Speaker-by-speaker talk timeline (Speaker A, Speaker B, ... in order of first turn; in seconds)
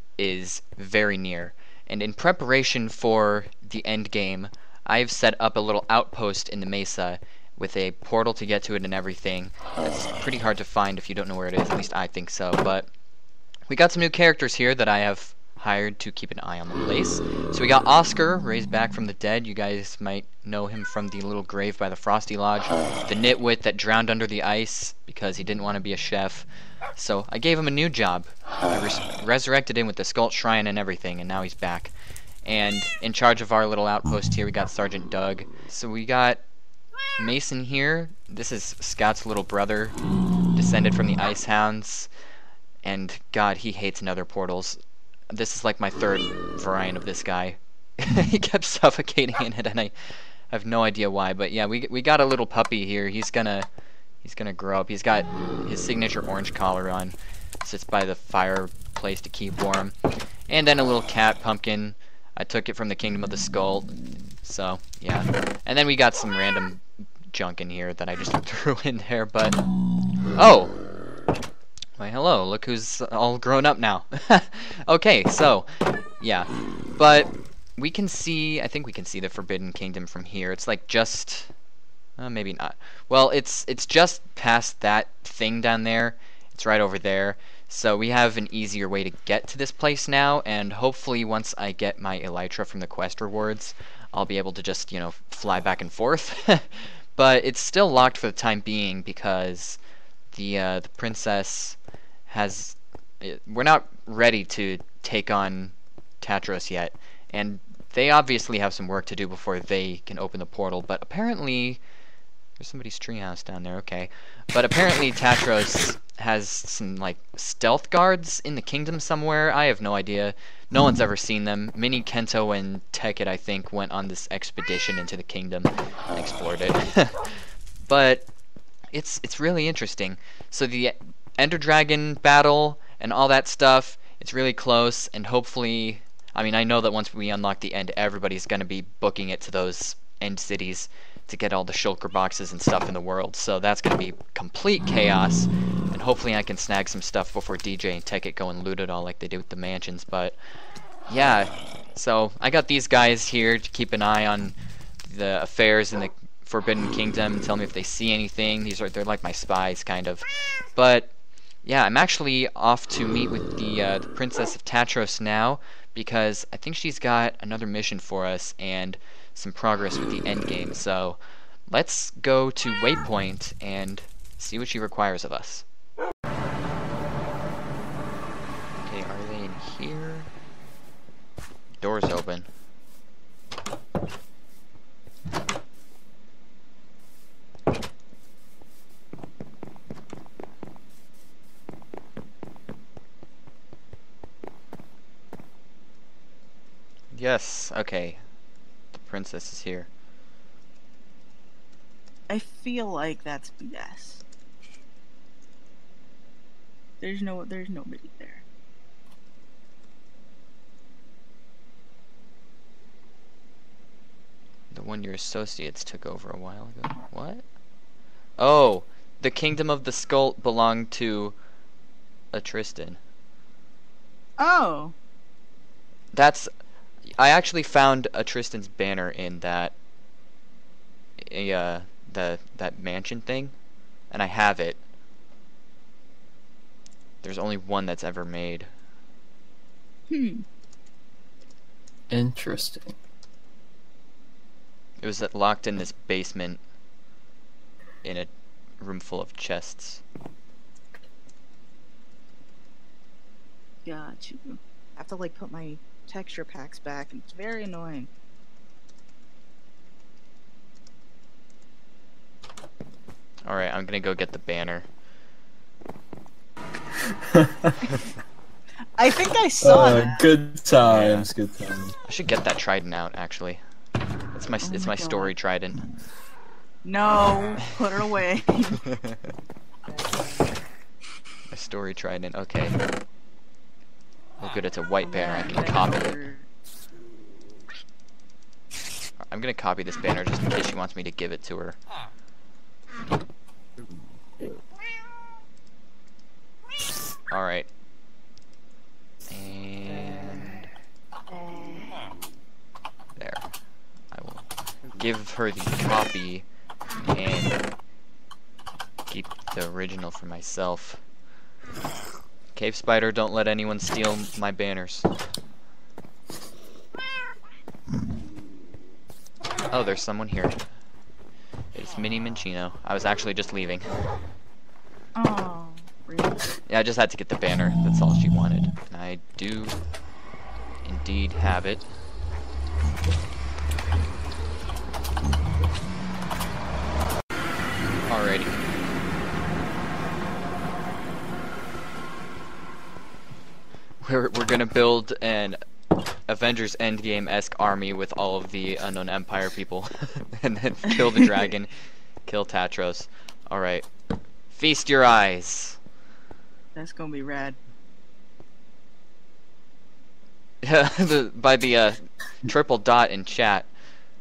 Speaker A: 0.2-9.6, 10.2-12.9, 13.7-31.9, 32.5-36.4, 37.2-40.0, 40.5-42.1, 42.8-44.8, 45.3-50.0, 50.5-53.7, 54.2-60.0, 60.5-69.6, 70.3-70.7, 72.0-75.7, 76.2-81.5, 82.2-99.8, 100.3-101.8, 102.3-111.8, 112.6-127.3, 127.9-128.3, 128.9-150.4, 151.1-161.1, 161.7-175.7, 178.9-180.3, 181.8-182.5, 197.1-198.2, 198.9-199.9, 214.7-217.4, 218.4-221.3, 222.3-223.0, 226.1-226.5, 227.2-229.8, 231.2-233.6, 234.1-234.8, 237.2-238.7, 245.0-246.6, 248.0-250.0, 263.4-264.9, 270.8-271.3, 272.1-273.6, 274.3-275.9, 278.9-279.2, 281.5-282.8, 284.4-286.2, 289.3-291.8, 297.3-297.7, 299.3-300.7, 303.2-303.5, 304.1-306.4, 307.1-307.6, 309.1-311.0, 312.6-315.1, 319.7-320.6, 321.7-323.9, 326.7-329.8, 330.9-331.9, 338.1-338.6, 344.0-345.6, 346.3-351.7, 352.2-353.9, 354.5-355.8, 360.6-363.7
Speaker B: 202.3-204.2, 207.0-208.4, 224.4-224.9, 240.1-240.4, 253.8-258.1, 269.0-270.3, 274.6-275.3, 276.8-278.8, 285.0-286.5, 325.2-326.4, 356.8-357.6
Speaker C: 242.1-242.9, 267.3-267.8, 269.6-271.9